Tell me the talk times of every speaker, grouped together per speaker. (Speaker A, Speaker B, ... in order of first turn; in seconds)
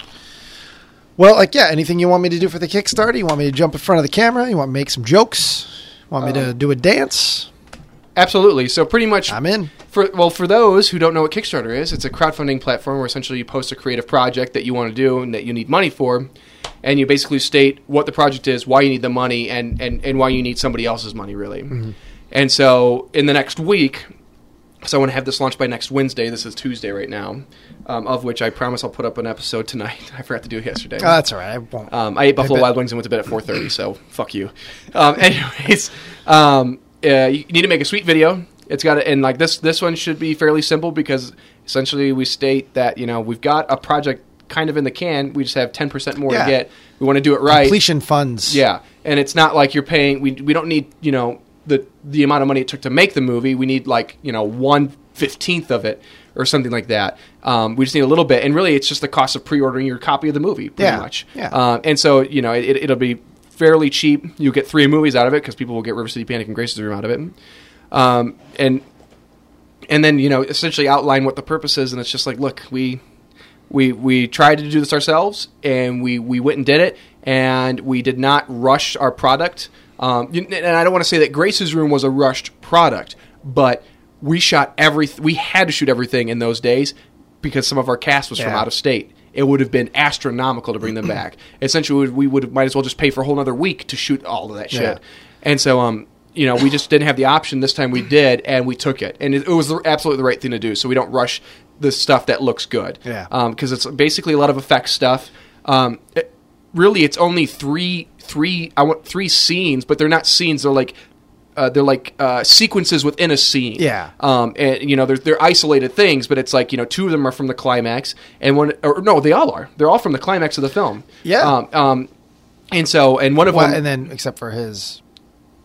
Speaker A: 1.2-7.5, 9.3-9.7, 31.0-32.7, 46.3-46.5, 47.5-48.6, 60.8-61.6, 88.3-88.6, 94.7-95.0, 113.8-114.1, 121.2-121.5, 123.4-125.0
Speaker B: 8.2-16.3, 16.8-21.8, 22.3-24.1, 24.8-31.2, 31.9-47.8, 48.5-67.3, 67.9-68.8, 69.9-73.0, 73.7-111.0, 111.6-122.1, 122.7-123.8